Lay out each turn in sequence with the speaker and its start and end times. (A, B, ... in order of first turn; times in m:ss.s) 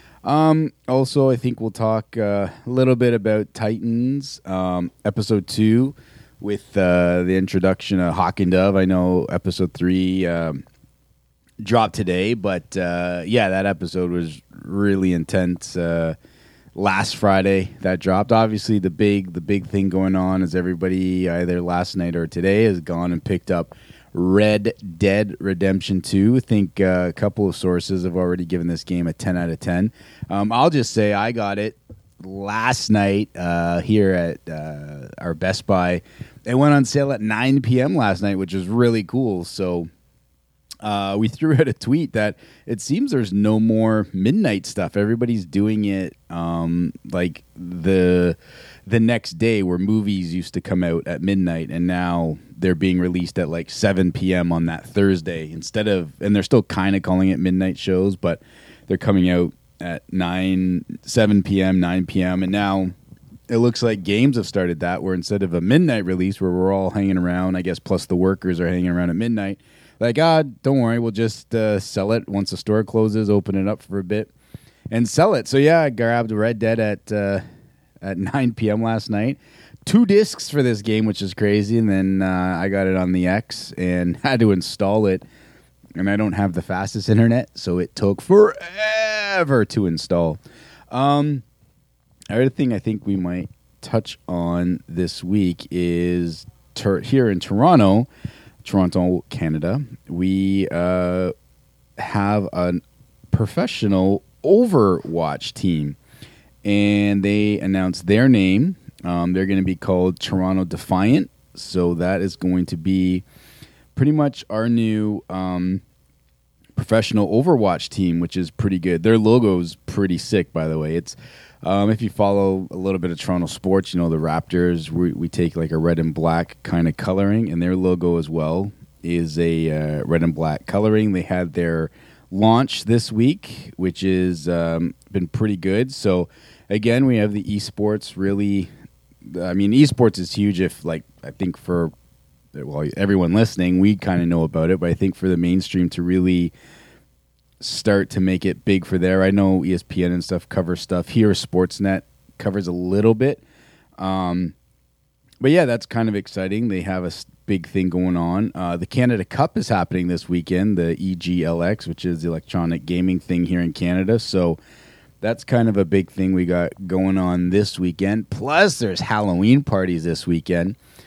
0:00.2-0:10.6 A
0:11.6-0:16.2 A
0:16.7-0:39.9 A
0:40.8-1:02.9 A
1:03.5-1:14.3 A
1:14.9-1:17.4 A
1:18.0-1:25.2 A
1:26.0-1:31.4 A
1:32.3-1:38.1 A
1:38.6-1:41.3 A
1:42.0-1:46.0 A
1:46.6-1:53.2 A
1:53.9-1:55.8 A
1:56.8-2:18.7 A
2:19.2-2:21.9 A
2:22.5-2:26.5 A
2:27.6-2:33.4 A
2:34.0-2:34.5 A
2:35.4-2:44.6 A
2:45.2-2:50.8 A